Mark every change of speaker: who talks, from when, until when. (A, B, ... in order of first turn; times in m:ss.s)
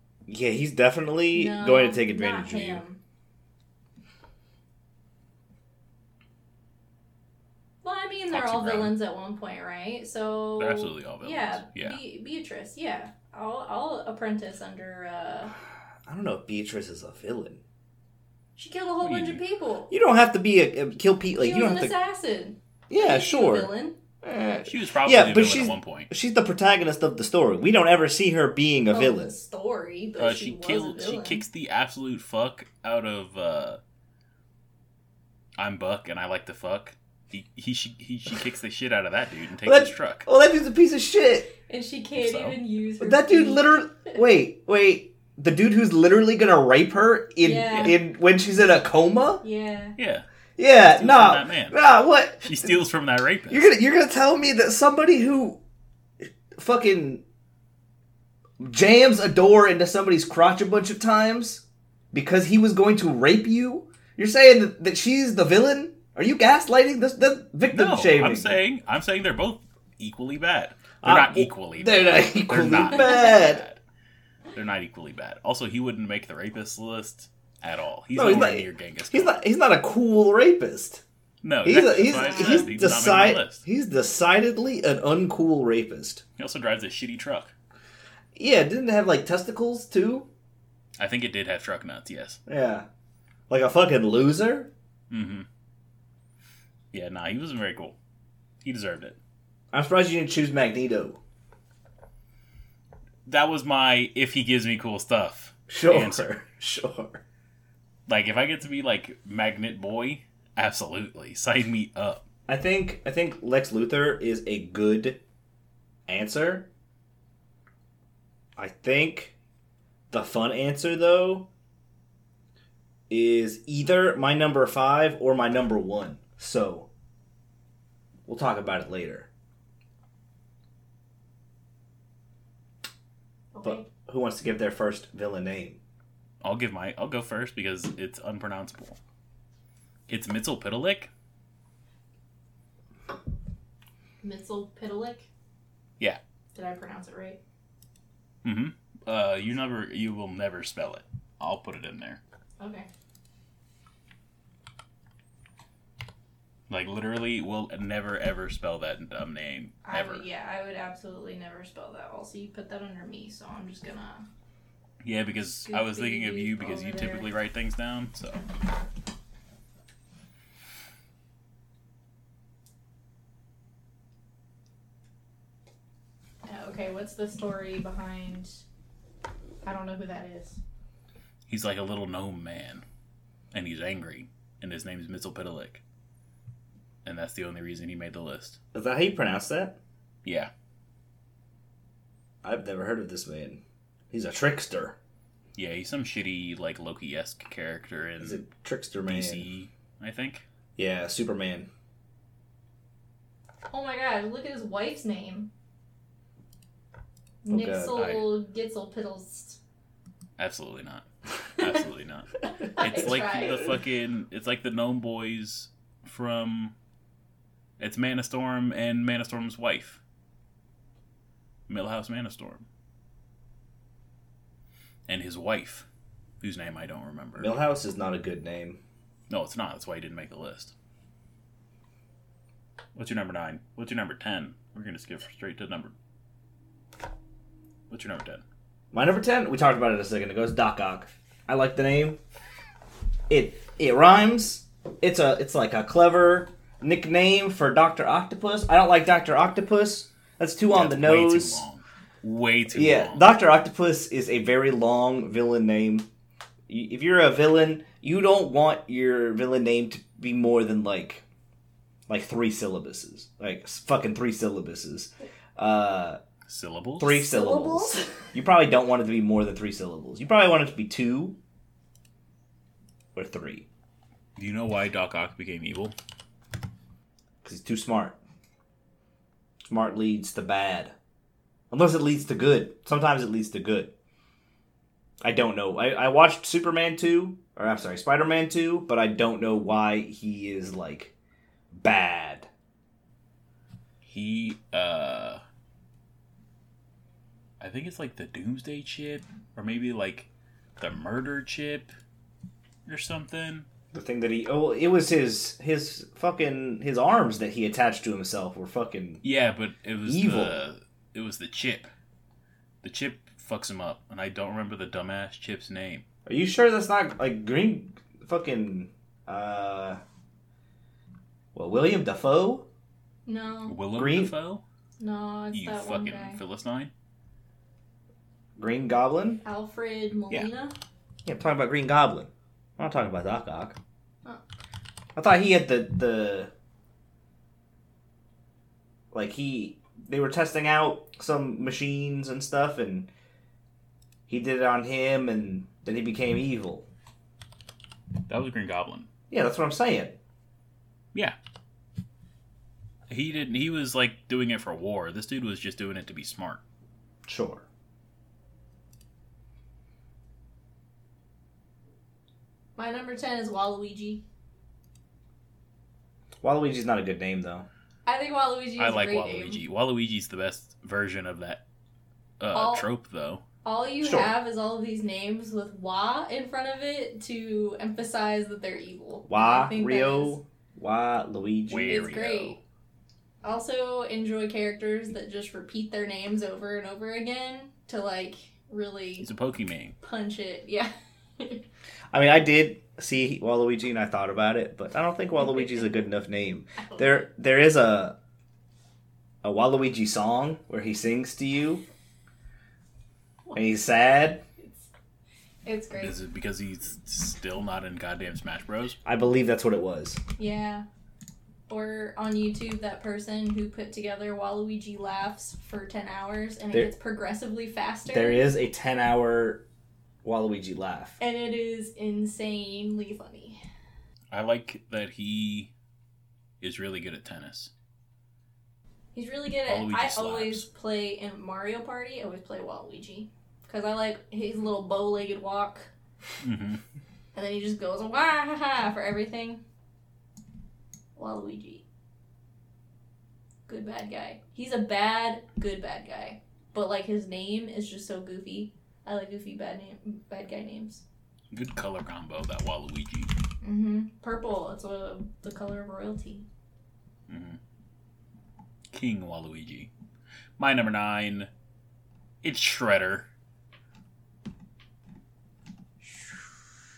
0:00.3-0:02.8 A
0:01.3-0:03.0 B
0:07.8-0:15.5 B
0:08.3-0:09.0 C
0:10.6-0:12.0 C
0:16.1-0:17.6 A
0:18.6-0:19.9 B
0:19.0-0:19.4 C
0:19.9-0:21.9 A
0:21.4-0:24.0 B
0:22.9-0:29.3 A
0:24.6-0:26.1 C
0:28.9-0:31.4 B
0:30.2-0:33.8 C
0:35.6-0:40.2 C
0:39.6-0:41.5 A
0:41.7-0:44.2 B
0:42.2-0:42.6 C
0:43.0-0:49.4 A
0:47.4-0:48.0 B
0:49.4-0:50.0 B
0:50.0-0:50.2 C
0:50.6-0:52.8 A
0:50.8-0:51.8 C
0:52.4-0:53.7 C
0:53.5-0:55.6 A
0:56.6-0:57.2 A
0:58.6-1:08.6 A
1:07.7-1:13.8 C
1:11.0-1:13.6 A
1:14.5-1:19.4 C
1:18.1-1:21.0 A
1:21.4-1:23.6 C
1:21.6-1:26.2 A
1:22.0-1:22.7 B
1:26.4-1:27.5 C
1:28.3-1:30.3 A
1:31.0-1:32.4 C
1:32.5-1:32.9 A
1:33.5-1:34.7 A
1:35.1-1:35.5 C
1:36.9-1:38.0 C
1:38.6-1:39.2 C
1:39.7-1:41.2 A
1:43.2-1:46.3 C
1:45.7-1:47.2 A
1:48.1-1:52.2 C
1:52.5-1:55.2 A
1:56.1-1:56.7 A
1:58.6-1:59.3 A
2:00.1-2:01.5 A
2:03.1-2:06.9 A
2:08.2-2:09.3 A
2:13.5-2:13.8 B
2:13.6-2:15.8 A
2:16.4-2:19.0 C
2:20.1-2:21.1 C
2:24.2-2:25.3 B
2:26.5-2:27.4 B
2:28.4-2:32.2 C
2:32.6-2:32.9 B
2:36.7-2:40.2 C
2:39.8-2:44.2 B
2:45.0-2:48.4 C
2:45.4-2:47.3 B
2:56.4-2:58.6 B
2:59.6-3:00.6 B
3:01.5-3:02.8 C
3:03.5-3:05.8 C
3:07.0-3:08.6 C
3:08.7-3:09.8 A
3:10.2-3:10.5 C
3:12.4-3:15.0 A
3:15.6-3:18.4 C
3:18.2-3:19.4 A
3:19.0-3:20.4 C
3:20.8-3:21.7 A
3:23.7-3:25.5 B
3:27.4-3:29.6 B
3:27.5-3:28.0 A
3:27.9-3:28.3 C
3:30.4-3:31.1 C
3:31.6-3:36.7 C
3:32.8-3:33.6 B
3:37.8-3:40.0 C
3:41.7-3:42.6 C
3:45.1-3:45.8 C
3:46.4-3:47.5 C
3:47.4-3:48.8 A
3:49.3-3:50.7 C
3:52.9-3:55.9 C
3:57.9-3:58.4 C
3:58.9-4:02.2 A
4:03.3-4:11.6 A
4:10.7-4:13.3 C
4:12.7-4:16.1 A
4:16.7-4:21.2 A
4:22.1-4:26.2 A
4:26.5-4:27.2 C
4:27.0-4:31.4 A
4:27.1-4:28.1 B
4:33.1-4:33.7 A
4:34.4-4:35.9 C
4:37.4-4:38.2 A
4:39.7-4:40.9 A
4:41.7-4:43.9 A
4:45.2-4:51.1 A
4:51.8-4:52.5 A
4:54.0-4:55.4 C
4:57.6-5:01.9 C
5:02.8-5:03.6 C
5:03.9-5:09.2 A
5:09.2-5:11.9 C
5:10.0-5:10.6 A
5:12.8-5:16.0 C
5:16.2-5:20.0 A
5:21.5-5:22.7 A
5:23.2-5:23.8 B
5:23.7-5:24.6 C
5:23.9-5:24.3 A
5:25.0-5:26.4 B
5:25.5-5:26.9 C
5:28.6-5:29.4 A
5:29.4-5:30.7 B
5:31.2-5:33.8 A
5:35.2-5:36.5 A
5:39.1-5:43.1 A
5:44.3-5:46.9 A
5:48.3-5:49.1 C
5:49.3-5:50.2 A
5:53.1-5:56.6 C
5:57.2-5:57.6 A
6:02.8-6:04.2 B
6:06.4-6:07.7 A
6:08.0-6:09.6 B
6:08.8-6:11.6 C
6:12.4-6:13.4 C
6:12.5-6:12.9 B
6:13.6-6:20.4 B
6:14.0-6:14.3 A
6:19.3-6:22.0 A
6:21.7-6:22.6 C
6:21.9-6:22.6 B
6:23.4-6:29.3 B
6:29.2-6:30.0 C
6:30.0-6:31.6 B
6:32.1-6:38.2 A
6:35.4-6:36.0 B
6:36.8-6:37.3 B
6:39.4-6:41.8 A
6:43.4-6:43.8 B
6:43.5-6:44.4 A
6:44.6-6:44.9 B
6:45.6-6:46.2 B
6:46.0-6:49.0 C
6:49.0-6:50.2 A
6:50.4-6:50.8 B
6:51.7-6:58.5 B
6:58.1-6:59.6 A
7:00.2-7:01.2 A
7:01.2-7:03.6 B
7:04.3-7:05.7 C
7:06.6-7:07.7 C
7:09.1-7:15.9 B
7:09.7-7:10.6 C
7:16.4-7:16.8 C
7:17.3-7:19.6 B
7:21.2-7:21.8 B
7:23.7-7:31.0 B
7:31.5-7:33.3 C
7:33.6-7:36.4 B
7:37.3-7:37.6 C
7:38.9-7:39.9 C
7:40.6-7:41.5 C
7:42.4-7:43.3 C
7:46.0-7:46.6 B